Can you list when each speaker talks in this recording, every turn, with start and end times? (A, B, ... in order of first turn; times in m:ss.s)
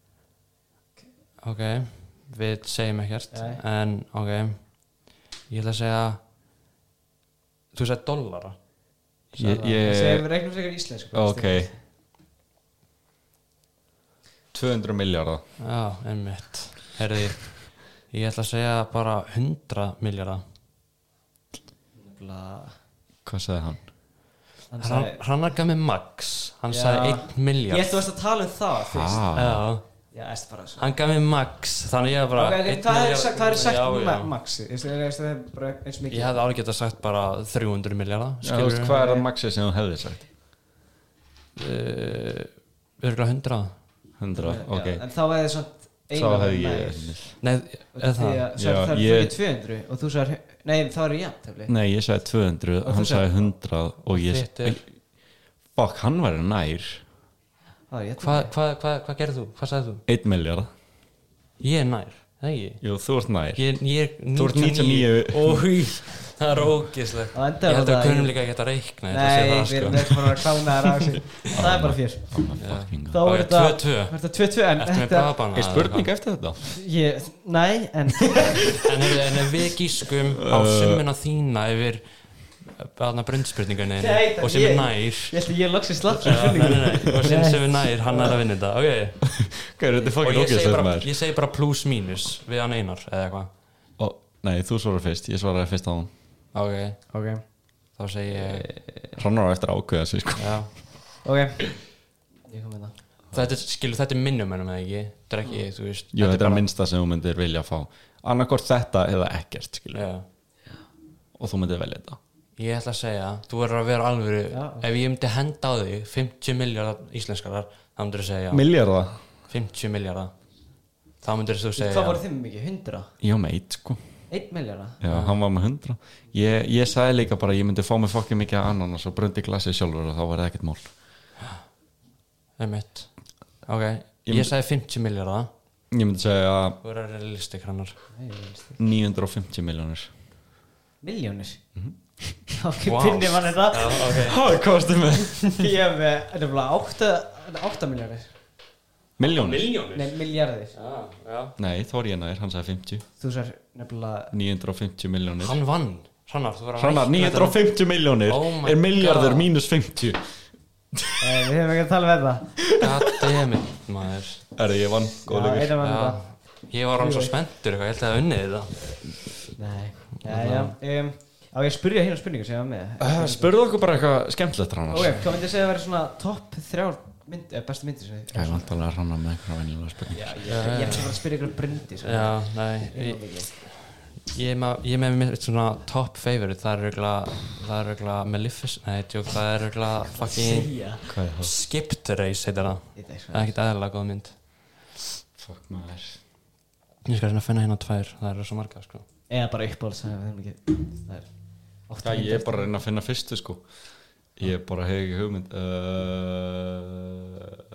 0:01.4-0:06.2 A
0:03.3-0:03.6 B
0:07.7-0:08.6 A
0:09.3-0:09.8 A
0:09.3-0:10.3 C
0:09.8-0:11.8 B
0:11.1-0:11.7 C
0:14.5-0:15.4 C
0:15.6-0:20.4 A
0:22.0-0:22.8 B
0:23.2-0:23.9 C
0:24.7-0:25.2 B
0:24.8-0:28.1 A
0:26.7-0:29.3 B
0:28.9-0:29.7 C
0:29.3-0:29.8 A
0:30.1-0:30.9 B
0:30.8-0:34.3 A
0:32.4-0:36.4 B
0:36.1-0:39.1 A
0:38.4-0:40.3 C
0:38.9-0:39.2 B
0:41.6-0:43.8 A
0:44.2-0:45.0 C
0:44.4-0:47.4 B
0:46.1-0:47.4 C
0:47.4-0:48.5 A
0:47.9-0:51.7 B
0:48.6-0:49.3 C
0:51.7-0:57.0 C
0:52.8-0:53.5 B
0:54.1-0:54.8 A
0:57.9-0:58.5 B
0:58.2-1:00.0 A
1:00.1-1:00.7 C
1:01.6-1:10.9 A
1:02.8-1:05.8 C
1:07.3-1:08.5 B
1:09.1-1:15.3 B
1:11.5-1:13.2 C
1:12.6-1:16.1 A
1:15.5-1:16.6 C
1:16.6-1:18.8 B
1:18.8-1:25.4 A
1:20.4-1:21.0 C
1:24.0-1:28.4 B
1:26.1-1:33.5 A
1:29.3-1:31.1 C
1:34.0-1:36.1 C
1:36.5-1:37.2 A
1:37.1-1:37.4 B
1:37.9-1:38.7 A
1:39.0-1:41.0 C
1:40.4-1:40.7 A
1:41.2-1:41.9 B
1:42.5-1:43.0 B
1:43.3-1:46.6 A
1:46.1-1:50.1 C
1:49.9-1:50.2 A
1:51.4-1:52.2 C
1:52.6-1:58.7 A
1:54.5-1:54.9 B
1:58.5-1:59.2 C
1:59.4-2:00.3 A
2:01.2-2:02.2 A
2:01.8-2:03.1 B
2:03.2-2:04.0 C
2:04.3-2:05.0 B
2:05.0-2:11.0 C
2:05.1-2:05.4 A
2:12.6-2:15.5 A
2:14.3-2:14.5 C
2:15.9-2:16.8 C
2:16.8-2:18.0 A
2:18.1-2:18.8 B
2:18.8-2:20.1 C
2:21.0-2:21.6 B
2:21.8-2:22.4 C
2:22.5-2:24.2 B
2:22.8-2:24.4 A
2:24.1-2:25.7 C
2:25.5-2:28.4 B
2:29.2-2:29.7 C
2:29.2-2:31.6 A
2:29.9-2:30.8 B
2:31.6-2:33.0 C
2:33.2-2:34.3 B
2:34.3-2:35.6 C
2:35.4-2:39.5 A
2:36.8-2:41.2 C
2:41.2-2:42.6 B
2:42.8-2:44.5 A
2:42.8-2:43.3 C
2:44.6-2:45.8 C
2:45.2-2:47.4 B
2:45.8-2:49.4 A
2:49.6-2:53.6 B
2:50.2-2:50.8 A
2:53.0-2:55.2 C
2:54.9-2:58.8 B
2:58.3-3:00.4 C
3:00.1-3:03.5 B
3:00.5-3:14.5 A
3:10.1-3:11.1 B
3:11.1-3:11.5 C
3:13.0-3:13.6 B
3:15.4-3:16.2 C
3:17.0-3:19.1 A
3:19.3-3:22.7 B
3:22.0-3:27.6 C